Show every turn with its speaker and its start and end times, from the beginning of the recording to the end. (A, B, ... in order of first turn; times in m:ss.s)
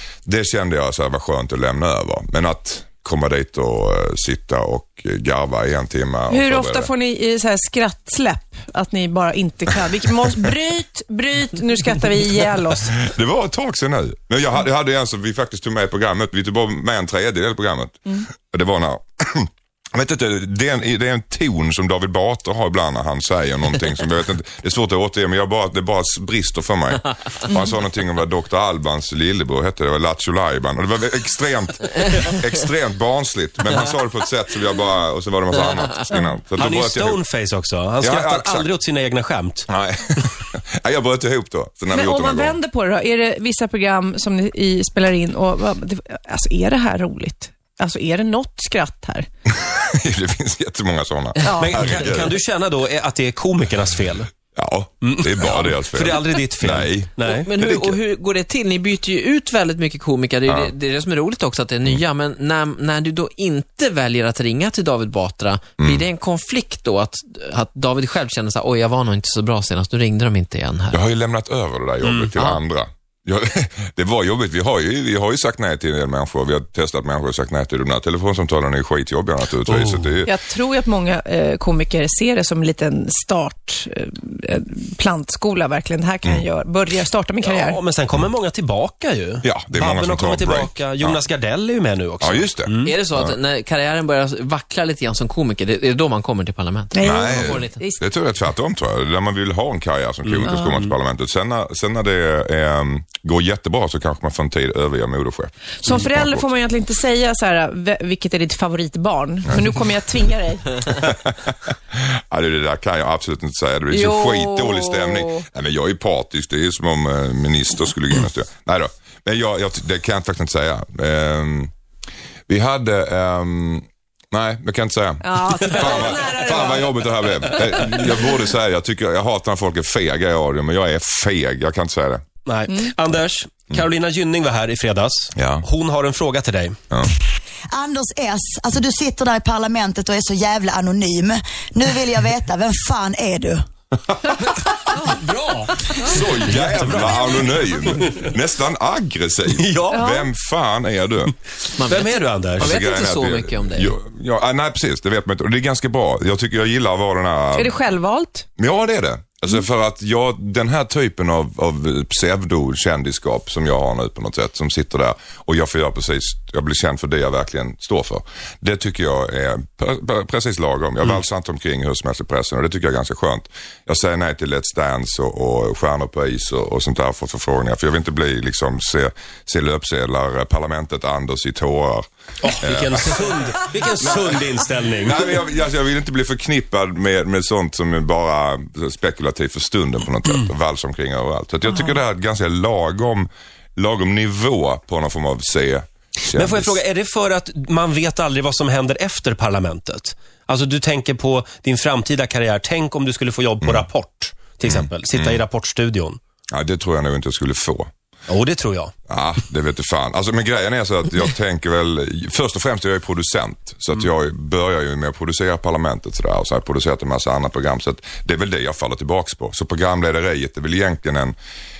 0:00.2-0:06.9 A
0:06.3-0:12.9 B
0:12.8-0:37.2 A
0:36.1-0:36.4 B
0:36.5-0:39.7 C
0:38.0-0:38.7 A
0:39.7-0:42.6 A
0:41.9-0:49.3 B
0:49.5-0:52.4 A
0:51.4-0:51.9 B
0:51.6-0:54.3 C
0:54.5-0:58.0 A
0:55.0-0:57.5 C
0:57.2-1:11.0 D
1:00.4-1:00.7 A
1:05.8-1:06.1 A
1:10.9-1:20.3 A
1:12.0-1:12.3 C
1:19.7-1:20.1 C
1:20.2-1:27.8 B
1:27.4-1:33.0 C
1:29.4-1:31.2 A
1:32.2-1:33.4 A
1:32.8-1:37.8 D
1:36.9-1:38.0 B
1:37.0-1:46.5 A
1:40.2-1:40.9 C
1:45.8-1:50.8 B
1:50.9-2:01.7 A
1:53.9-1:55.4 B
2:02.5-2:12.2 A
2:05.2-2:07.0 B
2:05.6-2:06.4 C
2:12.4-2:16.8 C
2:15.4-2:15.6 A
2:17.7-2:23.6 E
2:24.6-2:28.3 C
2:26.0-2:31.4 A
2:29.5-2:30.0 C
2:29.9-2:30.3 B
2:31.8-2:33.9 D
2:31.9-2:32.8 C
2:32.6-2:37.8 A
2:37.5-2:38.4 B
2:38.6-3:02.1 A
3:02.4-3:05.3 C
3:02.6-3:03.3 A
3:04.0-3:04.4 A
3:05.0-3:16.8 A
3:16.3-3:26.2 C
3:23.6-3:23.9 A
3:24.6-3:25.4 A
3:26.5-3:27.9 A
3:28.3-3:28.9 C
3:29.1-3:41.4 A